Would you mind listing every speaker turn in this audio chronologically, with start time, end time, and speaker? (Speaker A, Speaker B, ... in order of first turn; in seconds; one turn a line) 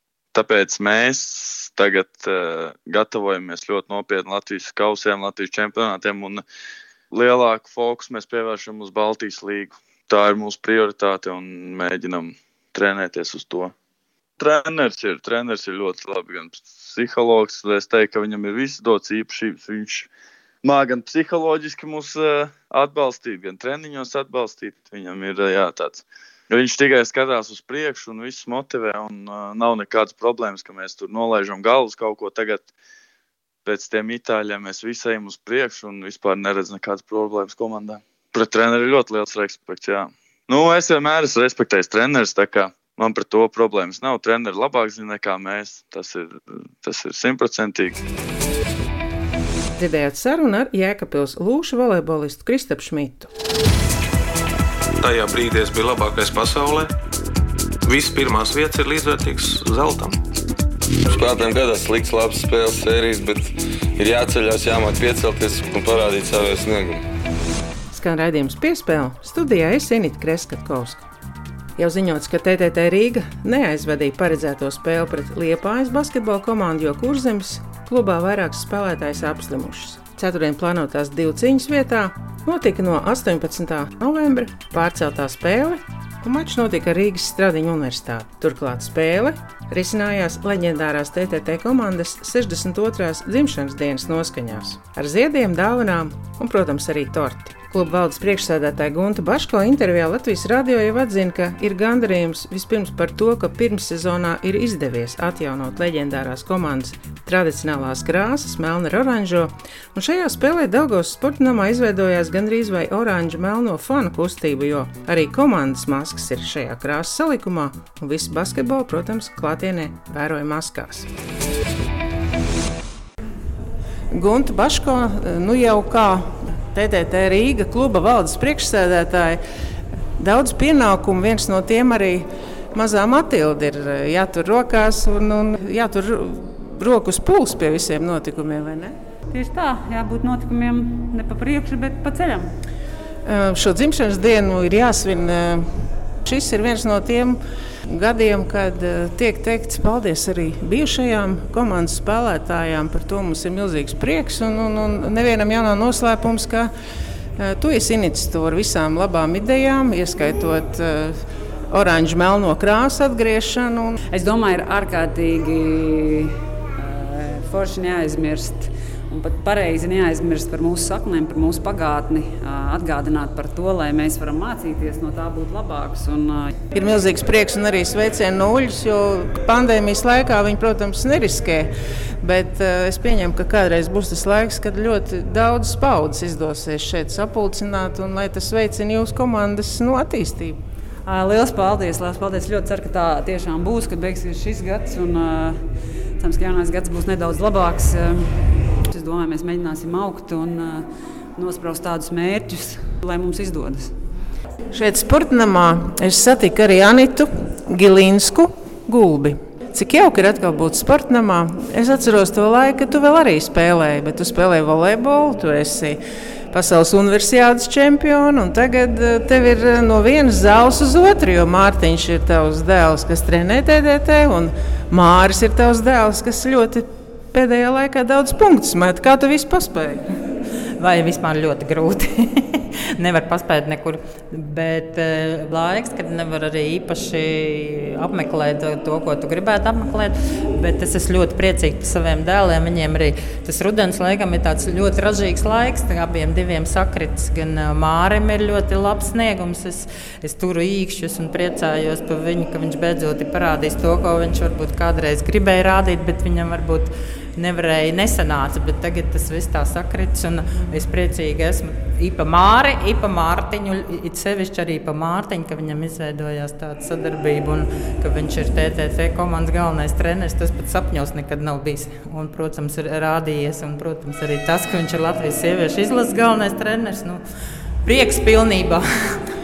Speaker A: 0.3-6.4
Speaker A: 7.1-13.7
Speaker A: 14.4-20.1
Speaker A: 20.6-32.7
Speaker A: 33.6-48.0
Speaker B: 49.7-53.3
Speaker C: 55.1-56.9
Speaker C: 57.9-60.1
Speaker D: 61.0-67.0
Speaker B: 67.9-71.0
Speaker B: 71.8-121.1
Speaker B: 124.1-129.4
Speaker B: 130.2-139.0
Speaker E: 139.3-142.5
Speaker B: 143.2-156.7
Speaker B: 157.4-161.2
Speaker B: 161.7-164.0
Speaker E: 164.1-176.5
Speaker B: 176.7-190.6
Speaker E: 191.1-203.9
Speaker B: 204.7-230.0
Speaker F: 230.8-277.2
Speaker F: 277.8-279.2